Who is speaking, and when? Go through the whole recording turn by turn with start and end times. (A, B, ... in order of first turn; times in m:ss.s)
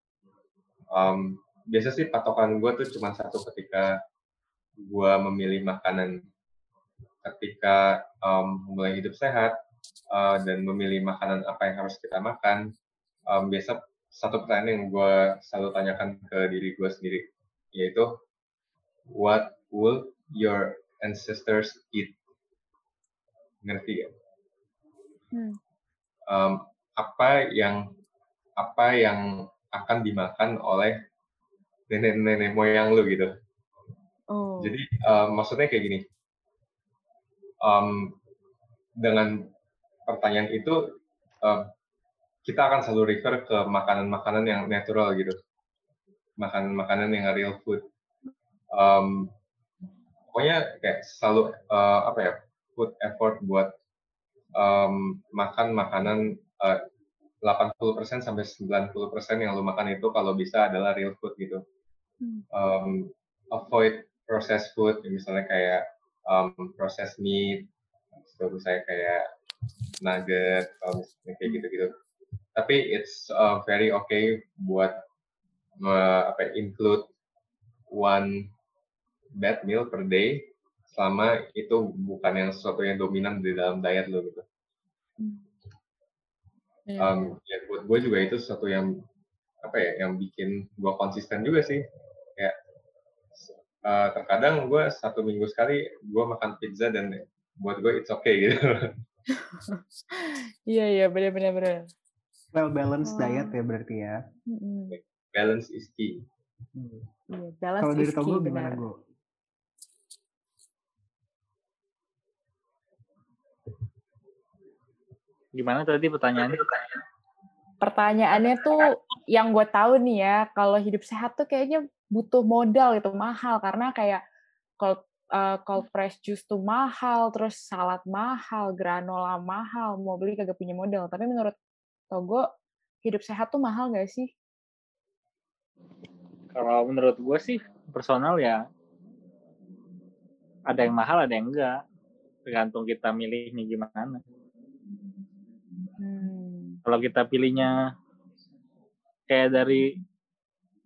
0:00.9-0:03.9 A
0:04.9-0:06.2 A
0:07.2-0:09.5 A
0:10.1-0:12.6 A
0:13.3-0:18.1 A
0:19.1-0:22.1 A
0:23.6-0:24.1 A
0:26.3-0:27.8 A
0:28.6-0:30.9 A
0:31.9-0:33.3 A
0:34.3-0:34.8 B
0:34.6-0:36.0 A
0:37.6-0:38.1 A
0:39.0-0:39.3 A
0:40.1-0:40.8 A
0:42.4-0:45.4 A
0:46.4-0:47.8 A
0:48.7-0:49.3 A
0:50.3-0:53.7 A
0:54.6-0:56.8 A
0:57.4-1:01.6 A
1:02.5-1:07.6 A
1:08.2-1:09.2 A
1:10.0-1:11.9 A
1:12.6-1:15.0 A
1:15.8-1:17.0 A
1:17.9-1:18.5 A
1:19.4-1:24.4 A
1:26.9-1:27.3 B
1:27.0-1:28.9 A
1:29.6-1:31.8 A
1:33.4-1:38.9 A
1:39.4-1:41.9 B
1:42.5-1:44.2 C
1:43.1-1:43.5 B
1:44.5-1:45.0 B
1:44.9-1:46.2 A
1:46.7-1:47.0 C
1:47.3-1:48.8 B
1:47.8-1:49.0 C
1:55.5-1:56.7 D
1:57.8-2:04.2 B
2:04.8-2:11.5 B
2:12.1-2:12.4 B
2:13.0-2:14.3 B
2:16.5-2:18.6 D
2:20.7-2:21.8 D
2:22.5-2:24.2 D
2:26.0-2:26.8 B
2:26.8-2:27.9 D
2:29.3-2:29.9 D